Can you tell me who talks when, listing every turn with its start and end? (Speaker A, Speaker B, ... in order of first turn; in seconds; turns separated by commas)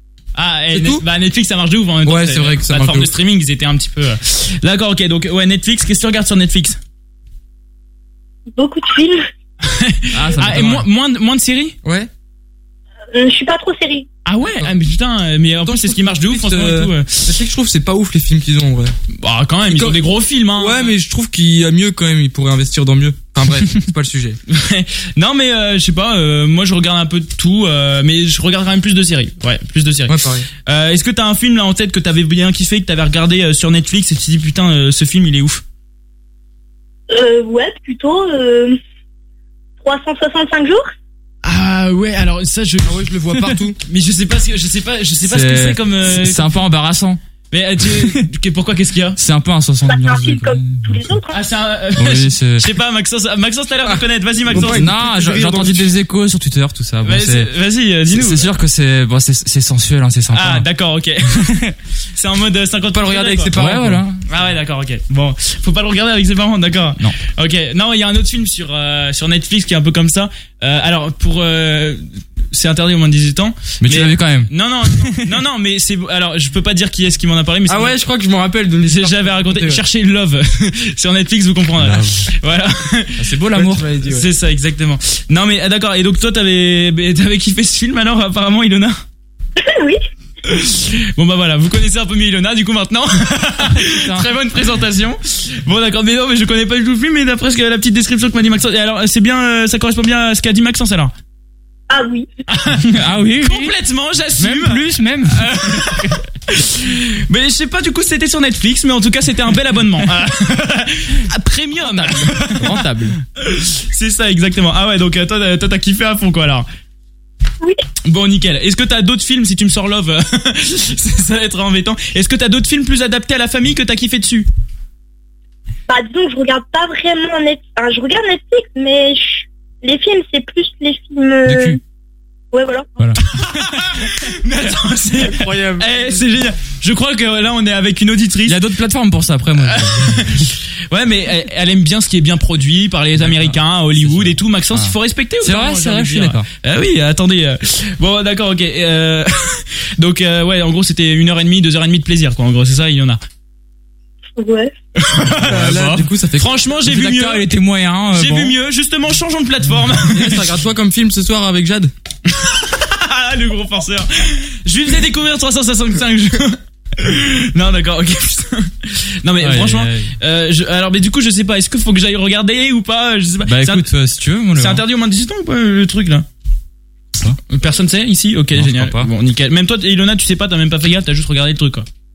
Speaker A: 0.3-6.8, Speaker B: 0.7-1.0, Speaker B: 2.0-3.1, Speaker C: 8.5-9.3, Speaker A: 9.7-11.8, Speaker D: 10.1-10.8, Speaker B: 11.8-12.1, Speaker C: 13.1-14.1, Speaker A: 14.2-17.2, Speaker B: 15.6-18.9, Speaker A: 19.1-20.9, Speaker B: 19.7-20.0, Speaker B: 20.6-24.4, Speaker A: 24.5-30.1, Speaker B: 30.1-30.5, Speaker A: 30.7-35.6, Speaker C: 37.1-38.8, Speaker C: 39.8-40.9, Speaker A: 41.4-43.0, Speaker B: 42.8-43.8, Speaker A: 43.8-46.6, Speaker D: 45.3-47.2, Speaker A: 47.5-49.2, Speaker D: 47.9-48.2, Speaker D: 49.2-51.0, Speaker C: 49.9-51.3, Speaker A: 51.3-54.9, Speaker D: 52.0-52.6, Speaker B: 53.9-56.0, Speaker D: 54.5-57.5, Speaker A: 57.0-58.5, Speaker D: 58.1-60.6, Speaker A: 60.3-61.5, Speaker A: 62.1-63.5, Speaker B: 62.9-64.0, Speaker D: 63.5-64.2, Speaker A: 64.3-78.0, Speaker D: 73.8-74.5, Speaker B: 77.7-79.8, Speaker A: 78.8-83.2, Speaker D: 81.8-82.2, Speaker D: 83.2-83.9, Speaker B: 83.5-84.3, Speaker A: 84.0-89.0, Speaker C: 89.6-90.0, Speaker A: 90.5-101.1, Speaker D: 93.8-94.3, Speaker C: 101.9-102.3, Speaker A: 102.5-112.9, Speaker D: 102.8-103.7, Speaker D: 104.4-106.2, Speaker D: 111.8-113.2, Speaker A: 113.4-116.7, Speaker A: 118.0-124.5, Speaker C: 125.9-131.8, Speaker D: 131.5-131.8, Speaker C: 132.5-132.9, Speaker A: 133.3-138.6, Speaker B: 135.4-135.7, Speaker D: 135.4-135.7, Speaker D: 138.4-140.4, Speaker A: 139.6-153.2, Speaker D: 143.2-146.5, Speaker C: 154.3-154.7, Speaker A: 155.0-157.5, Speaker B: 155.4-156.5, Speaker D: 156.8-158.5, Speaker A: 158.1-160.4, Speaker B: 160.0-161.9, Speaker A: 162.3-173.9, Speaker D: 169.4-170.1, Speaker D: 173.4-174.8, Speaker A: 174.5-176.2, Speaker A: 177.5-181.9, Speaker D: 178.5-179.1